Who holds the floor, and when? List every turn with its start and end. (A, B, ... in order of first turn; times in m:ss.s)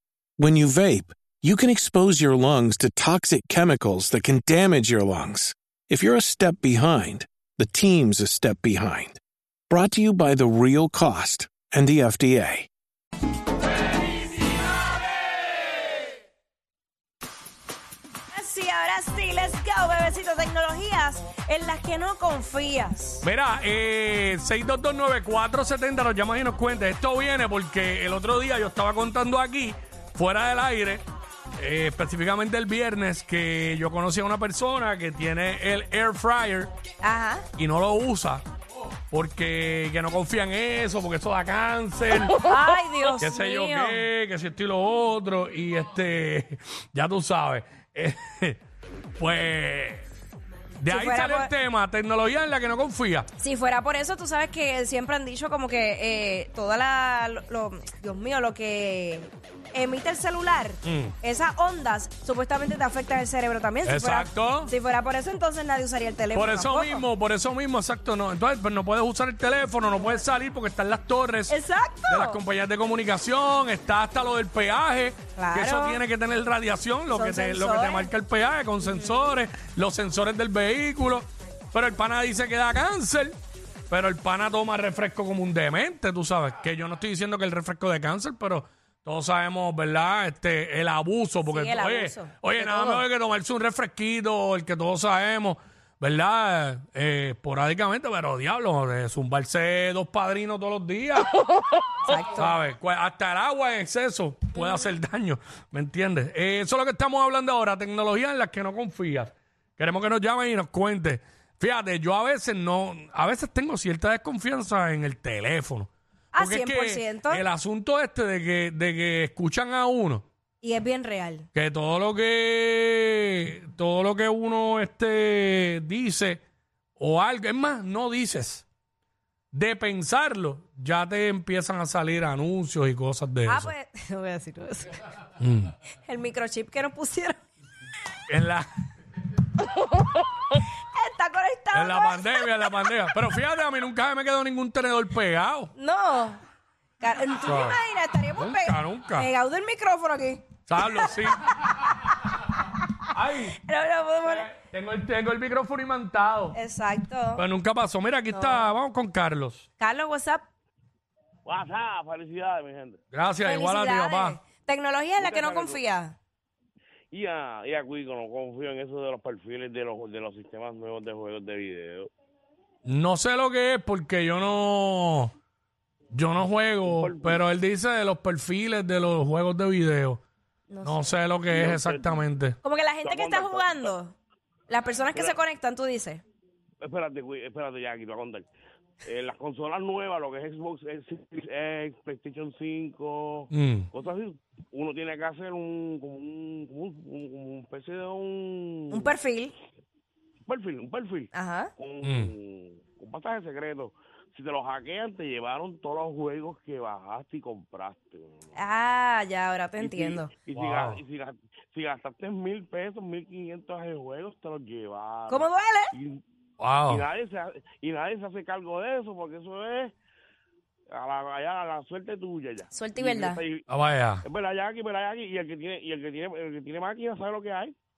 0:00.4-0:09.2 A
0:09.7-0:12.7 A
0:18.3-0:23.2 B
0:23.2-0:31.0 C
0:31.6-0:36.7 C
0:37.0-0:37.4 B
0:37.6-0:38.4 C
0:39.1-0:42.4 C
0:42.4-0:44.0 B
0:43.2-0:48.6 C
0:49.2-0:50.0 C
0:50.8-0:53.3 C
0:50.9-0:51.5 B
0:53.4-1:07.0 B
1:00.8-1:01.1 C
1:03.8-1:04.7 C
1:06.3-1:11.6 C
1:11.5-1:12.4 B
1:12.1-1:23.3 C
1:15.4-1:16.0 B
1:17.1-1:18.1 B
1:18.8-1:19.3 B
1:23.9-1:41.3 C
1:31.4-1:33.0 B
1:42.0-1:42.5 B
1:42.1-2:00.2 C
1:56.3-1:57.4 B
2:00.6-2:01.5 B
2:01.5-2:06.4 C
2:07.0-2:08.6 C
2:09.5-2:13.7 C
2:13.4-2:15.0 B
2:15.4-2:15.7 C
2:16.0-2:17.4 B
2:18.3-2:18.7 C
2:20.5-2:22.8 B
2:21.7-2:25.7 C
2:25.8-2:26.4 B
2:27.0-2:31.2 B
2:27.4-2:27.8 C
2:28.4-2:29.3 C
2:30.7-2:31.4 C
2:33.1-2:33.6 C
2:33.5-2:34.5 B
2:34.2-2:36.6 C
2:36.5-2:37.4 B
2:37.4-2:39.6 C
2:38.3-2:38.7 B
2:39.8-2:40.4 B
2:41.4-2:43.0 D
2:43.1-2:44.4 C
2:43.4-2:46.2 B
2:45.2-2:45.8 D
2:47.1-2:52.1 D
2:52.8-2:55.3 C
2:56.1-3:00.2 C
2:56.8-2:57.4 D
3:00.7-3:01.1 B
3:00.8-3:02.6 C
3:01.5-3:02.2 D
3:02.6-3:04.2 B
3:03.0-3:03.8 D
3:04.7-3:06.2 B
3:06.8-3:08.5 D
3:09.0-3:19.1 D
3:13.5-3:13.9 C
3:18.9-3:19.5 B
3:20.5-3:28.4 D
3:21.3-3:21.7 B
3:22.0-3:22.3 C
3:28.5-3:30.3 B
3:29.8-3:36.2 D
3:30.5-3:31.0 C
3:35.3-3:35.9 B
3:36.6-3:37.0 C
3:36.9-3:39.9 D
3:40.9-3:43.6 D
3:42.7-3:43.4 B
3:43.7-3:44.2 C
3:44.2-3:47.7 D